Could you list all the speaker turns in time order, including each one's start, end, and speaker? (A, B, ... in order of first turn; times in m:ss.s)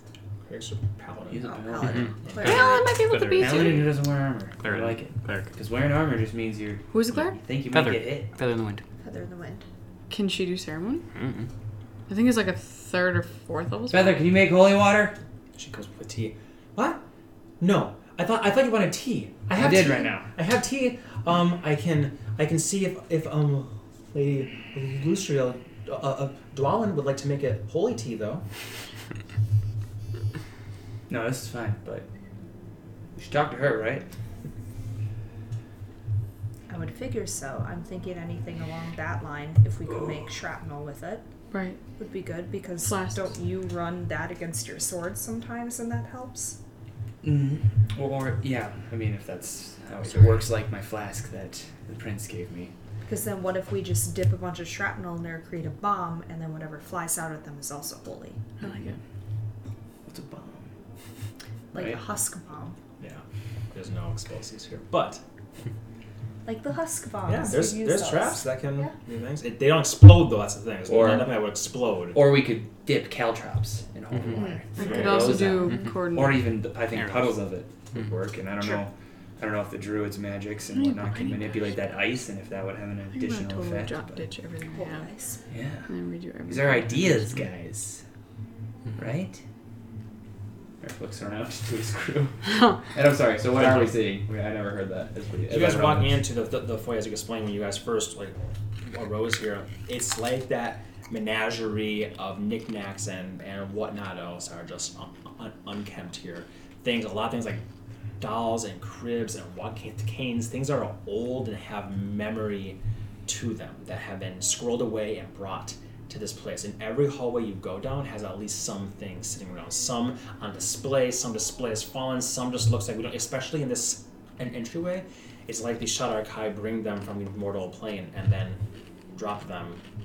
0:00.4-0:01.5 A
0:01.3-0:02.1 B
0:01.4-0:02.8 C
0:01.8-0:03.9 D
0:02.2-0:02.5 A
0:02.4-0:03.8 E
0:03.4-0:08.3 B
0:04.6-0:05.5 D
0:06.9-0:07.3 E
0:07.7-0:08.8 D
0:09.0-0:09.6 C
0:10.1-0:11.0 E
0:11.1-0:11.5 D
0:12.1-0:14.3 E
0:13.9-0:15.2 B
0:15.6-0:17.0 A
0:17.6-0:28.4 A
0:19.5-0:20.3 B
0:31.1-0:32.1 B
0:33.2-0:34.1 B
0:36.7-0:41.2 C
0:41.5-0:41.8 E
0:42.0-0:46.6 C
0:42.8-0:43.3 E
0:47.2-0:52.7 B
0:53.0-0:58.8 C
0:58.6-0:59.0 E
1:00.1-1:00.7 B
1:01.7-1:02.8 C
1:01.8-1:02.0 B
1:03.0-1:05.2 A
1:06.5-1:08.9 C
1:07.3-1:12.2 A
1:10.9-1:11.4 B
1:12.1-1:24.2 B
1:13.9-1:15.4 A
1:14.4-1:14.8 C
1:14.8-1:16.4 E
1:16.9-1:17.4 D
1:20.7-1:21.6 E
1:23.1-1:25.1 E
1:24.7-1:25.4 C
1:25.5-1:25.9 B
1:25.9-1:27.3 E
1:26.5-1:28.0 B
1:29.0-1:29.4 B
1:30.8-1:36.1 B
1:33.5-1:33.9 A
1:35.5-1:47.6 A
1:48.2-2:08.6 A
2:09.1-2:09.8 A